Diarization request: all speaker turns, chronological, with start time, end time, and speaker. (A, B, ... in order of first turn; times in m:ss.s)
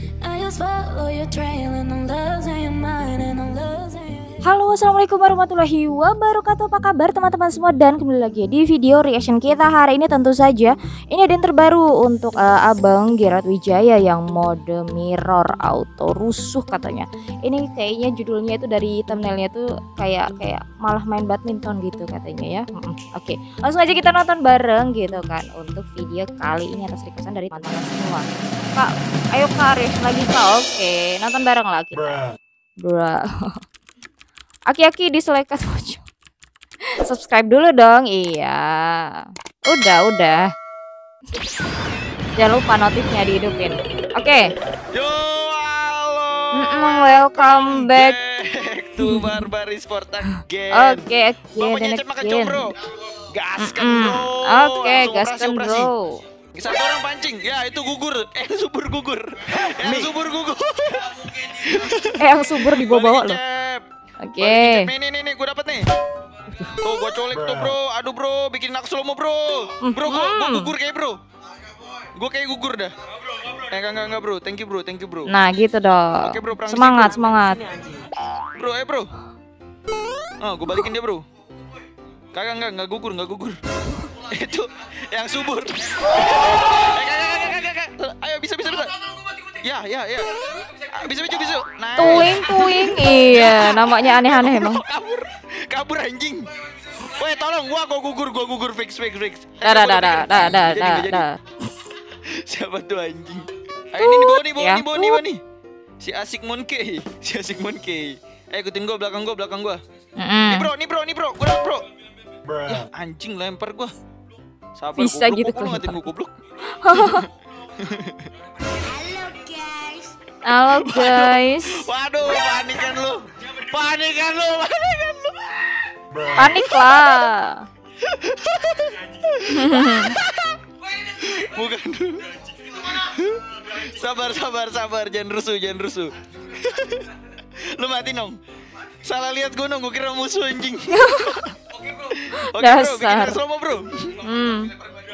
0:00.2-0:04.4 A
0:04.4-0:32.2 B
0:32.8-0:33.6 B
0:34.7-0:36.0 B
0:37.0-0:40.4 B
0:42.4-0:44.5 B
0:44.9-0:52.7 C
0:46.5-0:48.2 B
0:49.0-0:49.5 B
0:50.7-0:52.7 B
0:53.3-0:55.9 C
0:53.6-0:56.2 B
0:56.5-1:03.8 C
1:02.2-1:03.4 B
1:04.2-1:04.9 B
1:04.4-1:05.8 C
1:06.8-1:11.2 C
1:09.8-1:10.8 B
1:12.2-1:12.9 C
1:13.7-1:15.3 C
1:15.3-1:18.0 B
1:16.2-1:17.2 C
1:18.6-1:19.1 C
1:20.4-1:21.2 C
1:22.3-1:23.6 C
1:24.3-1:29.0 C
1:29.5-1:41.2 C
1:32.0-1:34.8 B
1:39.6-1:41.4 B
1:42.2-1:45.4 C
1:44.0-1:45.2 B
1:46.0-1:49.8 C
1:50.2-1:50.7 B
1:50.5-1:51.9 C
1:52.7-1:53.9 C
1:54.8-1:56.3 C
1:55.0-1:56.0 B
1:56.7-1:57.3 B
1:56.9-1:57.2 C
1:57.8-1:58.2 C
1:58.8-2:00.1 A
2:00.4-2:01.8 B
2:00.8-2:05.8 C
2:06.3-2:07.6 B
2:08.0-2:10.6 C
2:09.5-2:10.2 B
2:11.1-2:12.3 C
2:12.8-2:18.3 C
2:19.0-2:24.2 C
2:20.9-2:21.4 B
2:22.5-2:23.4 B
2:24.2-2:24.7 B